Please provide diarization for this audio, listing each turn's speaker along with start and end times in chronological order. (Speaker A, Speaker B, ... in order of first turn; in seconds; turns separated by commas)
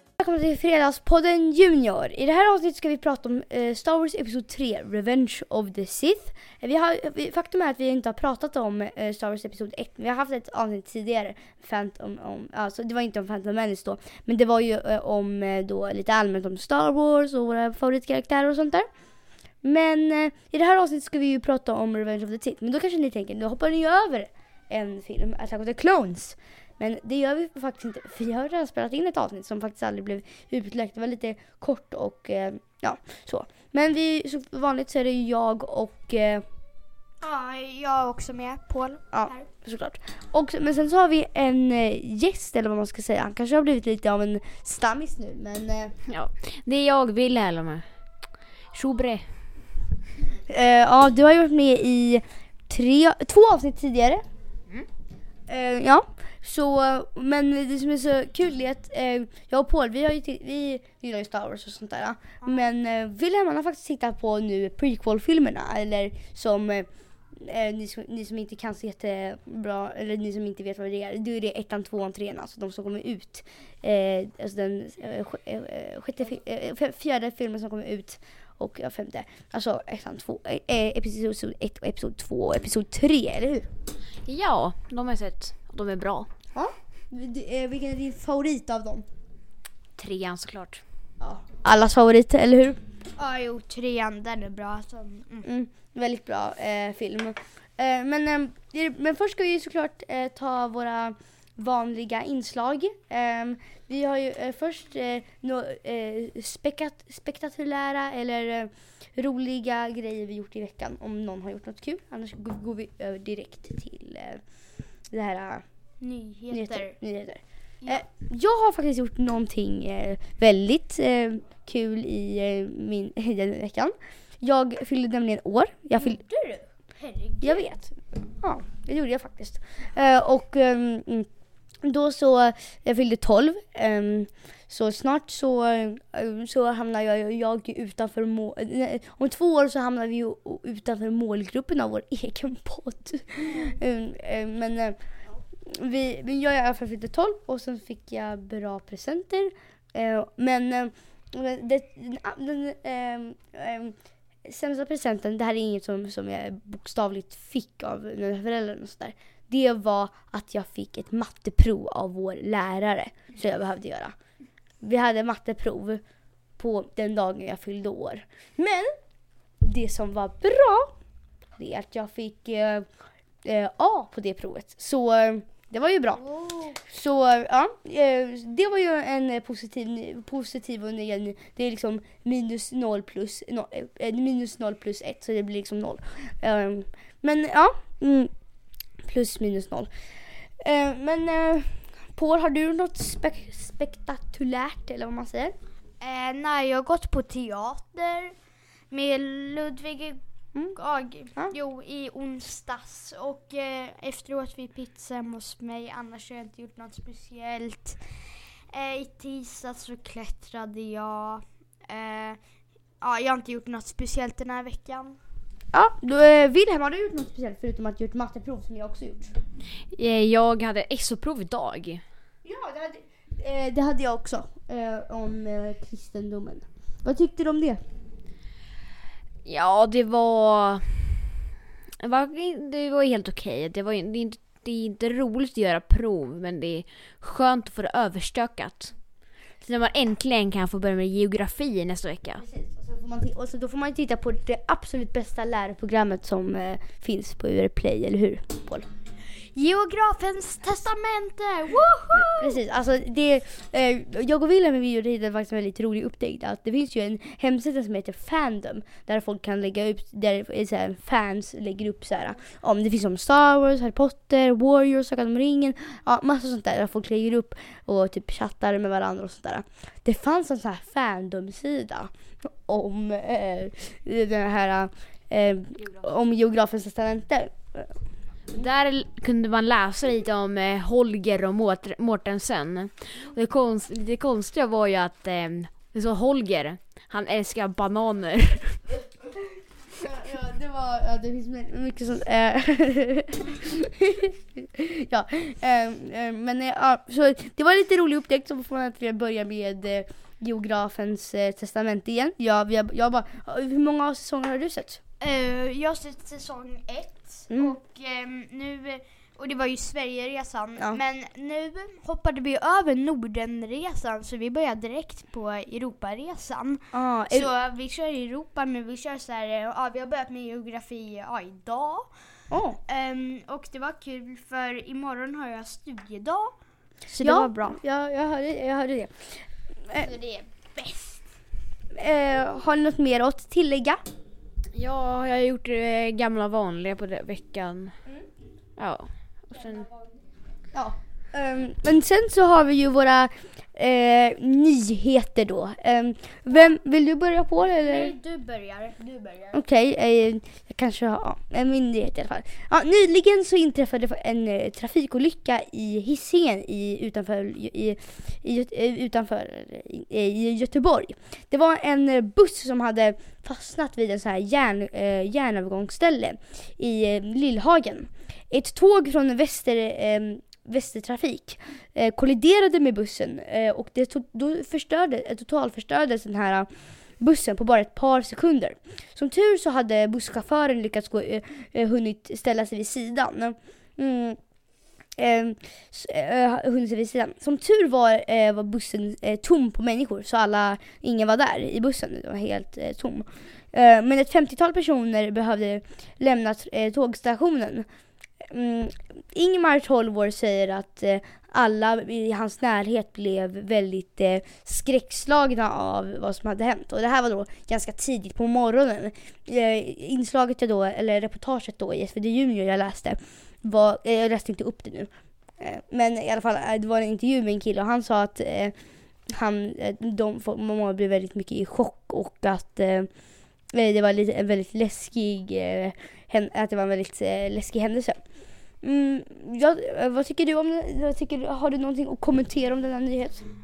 Speaker A: 0.2-18.9, Speaker A: 19.6-36.4, Speaker B: 37.2-39.5, Speaker A: 39.1-45.9, Speaker C: 46.1-47.8, Speaker C: 48.7-49.2, Speaker A: 50.5-54.2, Speaker A: 55.5-83.7, Speaker C: 84.2-86.3, Speaker A: 86.5-89.0, Speaker C: 90.0-90.8, Speaker A: 91.2-92.8, Speaker B: 93.2-95.5, Speaker A: 95.4-114.4, Speaker A: 115.1-115.6, Speaker B: 116.0-117.0, Speaker A: 116.5-126.2, Speaker B: 126.0-127.6, Speaker A: 127.4-131.3, Speaker A: 131.8-145.0, Speaker B: 143.4-143.8, Speaker A: 145.6-164.1, Speaker A: 164.8-166.0, Speaker A: 166.6-168.9, Speaker A: 169.6-170.9, Speaker A: 171.6-172.9, Speaker A: 173.4-176.2, Speaker B: 176.2-176.8, Speaker A: 176.8-188.3, Speaker A: 189.0-189.9, Speaker A: 190.6-195.5, Speaker B: 196.0-198.3, Speaker B: 198.9-200.2, Speaker B: 200.7-208.1, Speaker B: 208.7-212.4, Speaker B: 213.0-215.2, Speaker A: 215.7-219.3, Speaker C: 219.9-222.0, Speaker A: 222.4-227.8, Speaker C: 229.4-231.4, Speaker C: 232.0-238.9, Speaker C: 239.6-242.4, Speaker A: 242.4-248.9, Speaker B: 249.4-252.6, Speaker A: 252.1-277.9, Speaker C: 278.5-288.8, Speaker A: 289.9-305.0, Speaker B: 305.2-322.1, Speaker A: 307.5-307.8, Speaker A: 316.9-317.5, Speaker A: 322.5-322.8, Speaker B: 322.9-326.5, Speaker B: 327.1-327.8, Speaker A: 327.2-330.1, Speaker B: 329.9-331.2, Speaker A: 331.9-334.0, Speaker C: 334.7-338.0, Speaker C: 338.8-339.8, Speaker B: 339.5-340.1, Speaker A: 340.7-348.1, Speaker B: 347.6-349.6, Speaker A: 349.5-384.4, Speaker A: 385.2-397.9, Speaker A: 398.4-418.7, Speaker A: 419.3-423.1, Speaker A: 423.7-433.4